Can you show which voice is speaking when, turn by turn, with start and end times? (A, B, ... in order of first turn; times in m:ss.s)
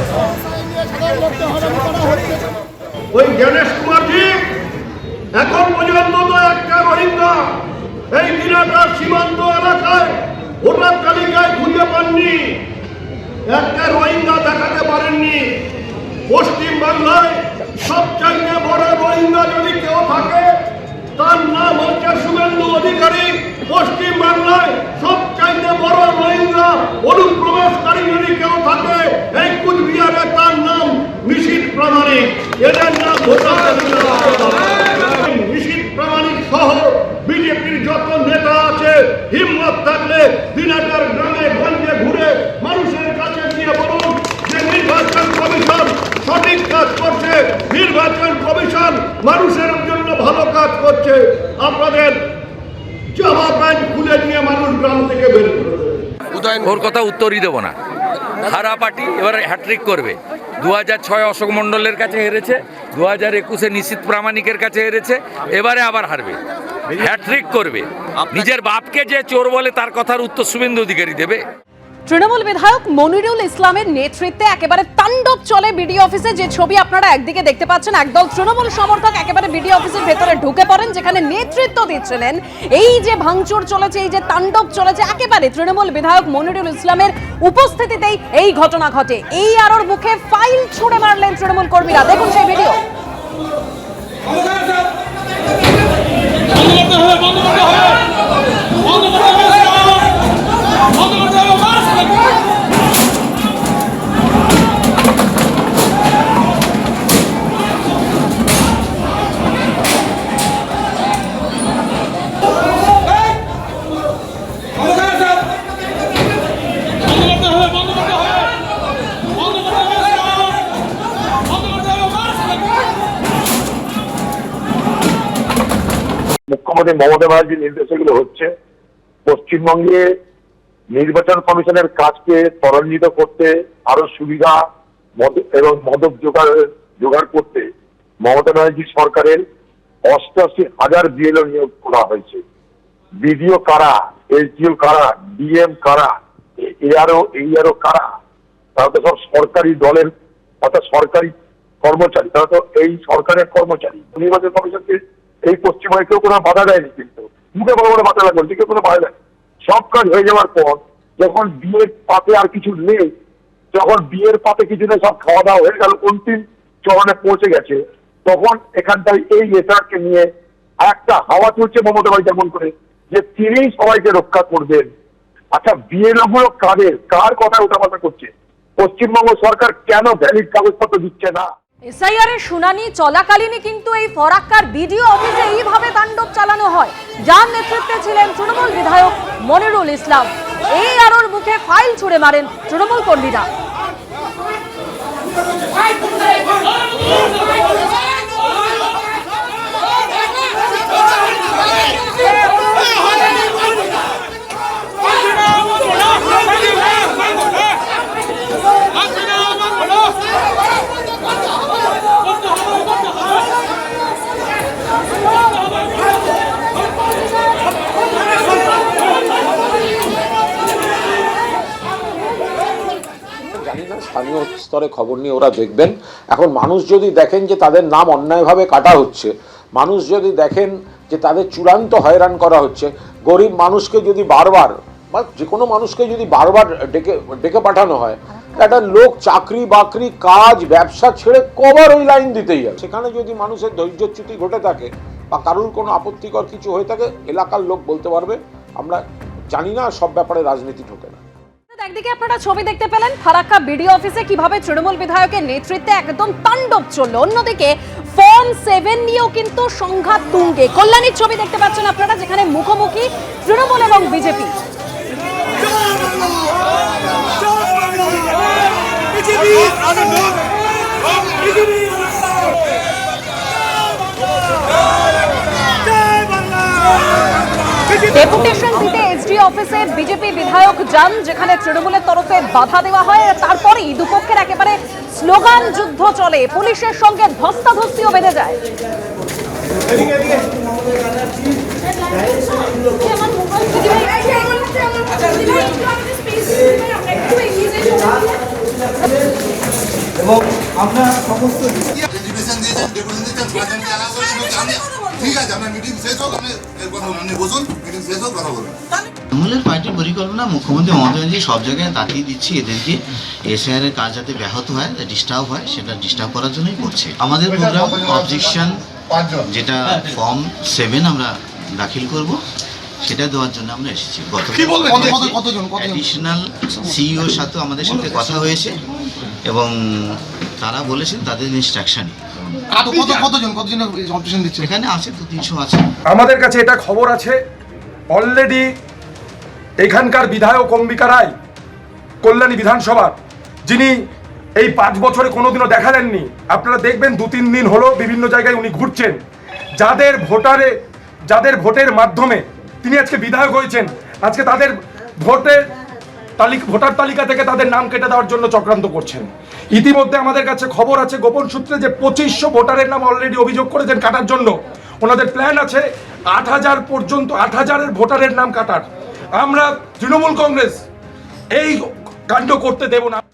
0:03.1-0:04.6 A
0:05.3-0:12.7 A
0:13.5-0:15.7 A
0:16.3-0:20.6 A
0:21.2-0:52.2 A
0:53.1-0:56.1 A
0:56.3-0:57.8 B
0:58.4-1:06.4 B
1:06.9-1:11.4 B
1:12.1-1:32.8 C
2:06.5-2:08.5 D
2:09.3-2:10.0 D
2:10.9-2:14.6 D
2:15.2-2:17.7 D
2:18.2-2:19.4 D
2:20.1-2:22.4 D
2:23.2-2:28.1 D
2:28.8-2:39.1 D
2:39.7-2:43.1 D
2:43.7-2:50.3 D
2:50.8-2:54.9 D
2:55.6-3:01.5 D
3:01.9-3:13.5 C
3:43.5-4:11.2 E
4:11.7-4:24.6 C
4:38.1-4:48.6 C
4:52.6-4:58.3 C
5:02.1-5:08.8 F
5:09.3-5:18.8 G
5:17.5-5:18.6 F
5:19.1-5:19.4 F
5:19.4-5:22.4 G
5:23.0-5:28.8 G
5:24.5-5:26.0 F
5:27.8-5:28.6 F
5:29.5-5:32.2 G
5:32.7-5:34.7 F
5:34.6-5:35.9 G
5:36.1-5:37.4 H
5:38.2-5:38.7 H
5:39.8-5:41.3 H
5:42.2-5:43.9 H
5:44.6-5:49.2 H
5:49.8-5:50.8 H
5:51.3-5:55.7 H
5:56.4-6:08.9 H
6:09.4-6:10.8 H
6:11.6-6:13.2 H